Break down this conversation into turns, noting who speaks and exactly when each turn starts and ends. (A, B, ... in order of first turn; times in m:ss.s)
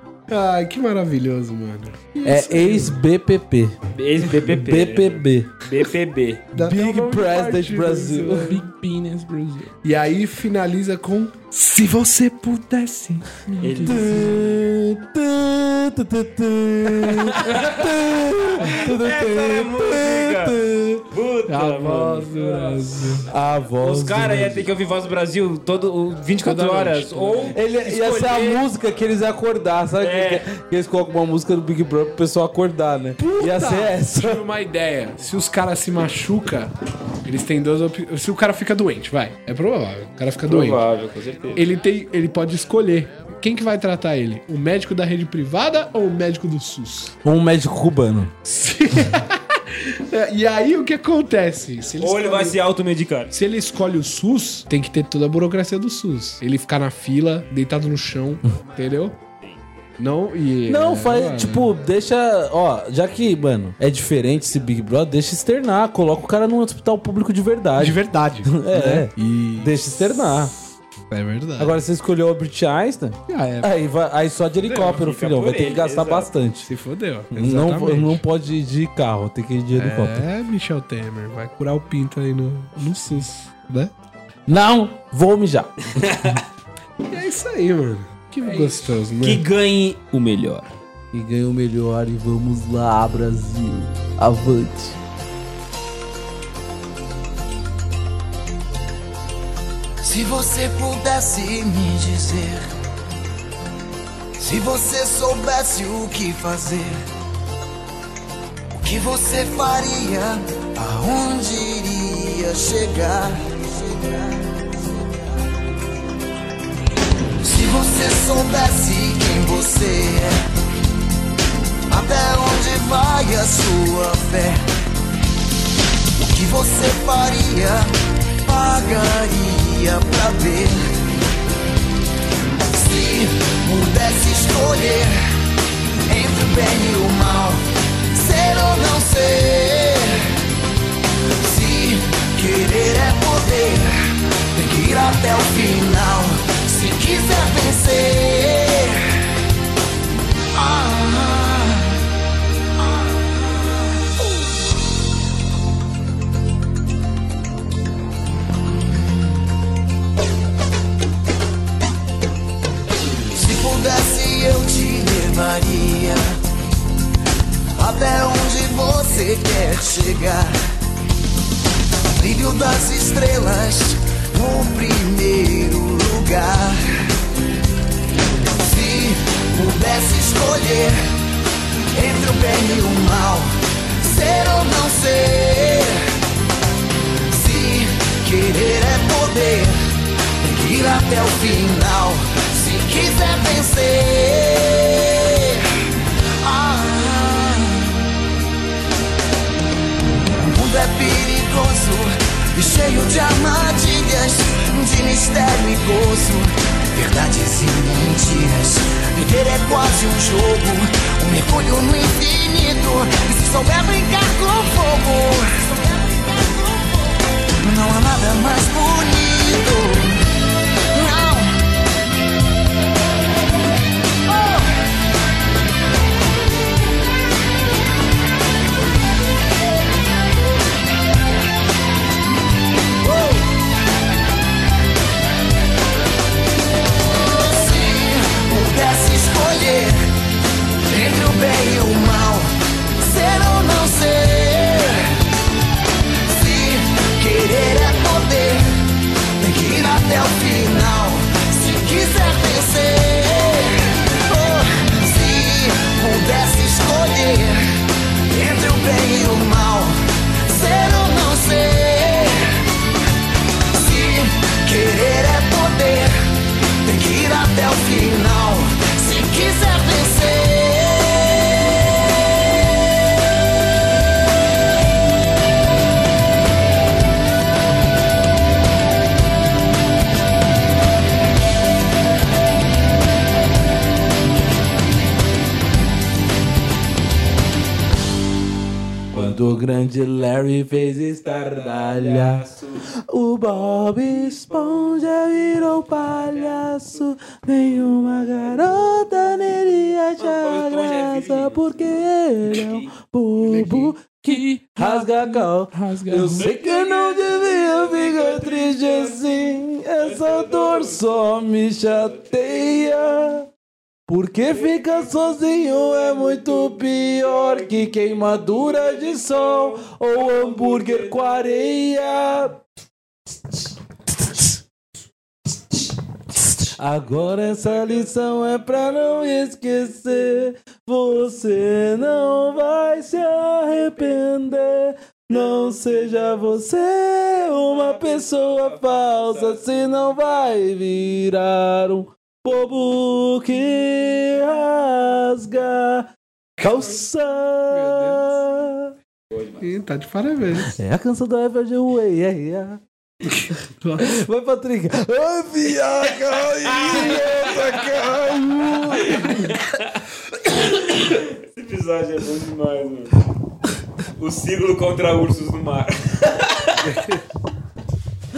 0:00.3-0:03.0 A
0:02.2-0:05.5 B
0:03.9-0:06.4 C
0:06.5-0:08.6 A
0:06.5-0:08.6 B
0:08.4-0:09.7 D
0:09.8-0:13.3 A
0:13.5-0:14.5 D
0:13.6-0:14.6 C
0:13.8-0:21.1 B
0:17.1-0:18.0 C
0:17.5-0:17.8 D
0:18.6-0:22.3 C
0:21.5-0:23.3 A
0:22.4-0:23.0 D
0:23.3-0:24.7 B
0:23.8-0:28.6 C
0:26.4-0:27.5 A
0:27.5-0:34.4 B
0:30.0-0:30.5 C
0:33.2-0:36.7 A
0:37.2-0:40.8 A
0:40.4-0:41.7 C
0:41.6-0:47.1 A
0:47.2-0:48.3 B
0:48.4-0:52.6 A
0:52.0-0:53.3 C
0:53.3-0:59.2 A
1:00.0-1:01.7 A
1:00.7-1:10.5 B
1:07.8-1:10.4 A
1:11.1-1:11.8 A
1:11.6-1:16.7 B
1:13.3-1:13.8 A
1:14.6-1:16.3 C
1:16.7-1:18.2 A
1:17.3-1:20.3 B
1:19.7-1:23.9 A
1:24.5-1:26.4 B
1:26.0-1:26.4 C
1:27.1-1:29.4 A
1:28.4-1:28.8 D
1:29.2-1:30.7 C
1:31.1-1:35.0 B
1:40.0-1:42.7 E
1:44.4-1:47.0 E
1:48.7-1:54.6 E
1:57.4-2:00.4 E
2:01.9-2:04.6 E
2:06.2-2:07.9 E
2:08.4-2:10.8 E
2:12.7-2:15.2 E
2:16.1-2:20.3 E
2:21.4-2:24.0 E
2:24.5-2:29.2 E
2:30.5-2:32.0 E
2:32.8-2:34.1 E
2:43.3-2:46.4 E
2:47.8-2:50.5 E
2:52.1-2:56.8 E
2:58.3-3:01.0 E
3:01.9-3:06.1 E
3:07.3-3:09.8 E
3:10.4-3:15.9 E
3:16.4-3:18.0 E
3:20.4-3:40.3 E
3:40.9-3:41.6 E
3:44.3-3:44.6 E
3:53.0-3:53.4 E
3:57.1-4:00.0 E
4:00.9-4:05.1 E
4:06.2-4:08.6 E
4:09.4-4:17.6 E
4:18.3-4:22.6 E
4:23.6-4:26.1 E
4:26.8-4:31.5 E
4:49.1-5:13.5 B
4:51.6-4:52.7 C
5:00.2-5:02.9 C
5:04.2-5:06.5 D
5:06.4-5:09.2 C
5:10.0-5:11.2 C
5:11.9-5:12.4 C
5:14.1-5:22.6 B
5:17.9-5:21.4 C
5:26.6-5:48.9 B
5:46.6-5:47.0 A
5:47.7-5:48.3 A
5:49.3-5:49.6 C
5:49.6-5:50.8 A
5:50.7-5:52.8 B
5:53.6-5:54.2 A
5:54.0-5:59.6 B
5:56.5-5:58.0 C
5:58.9-6:03.3 C
6:04.0-6:07.2 C
6:06.9-6:07.2 A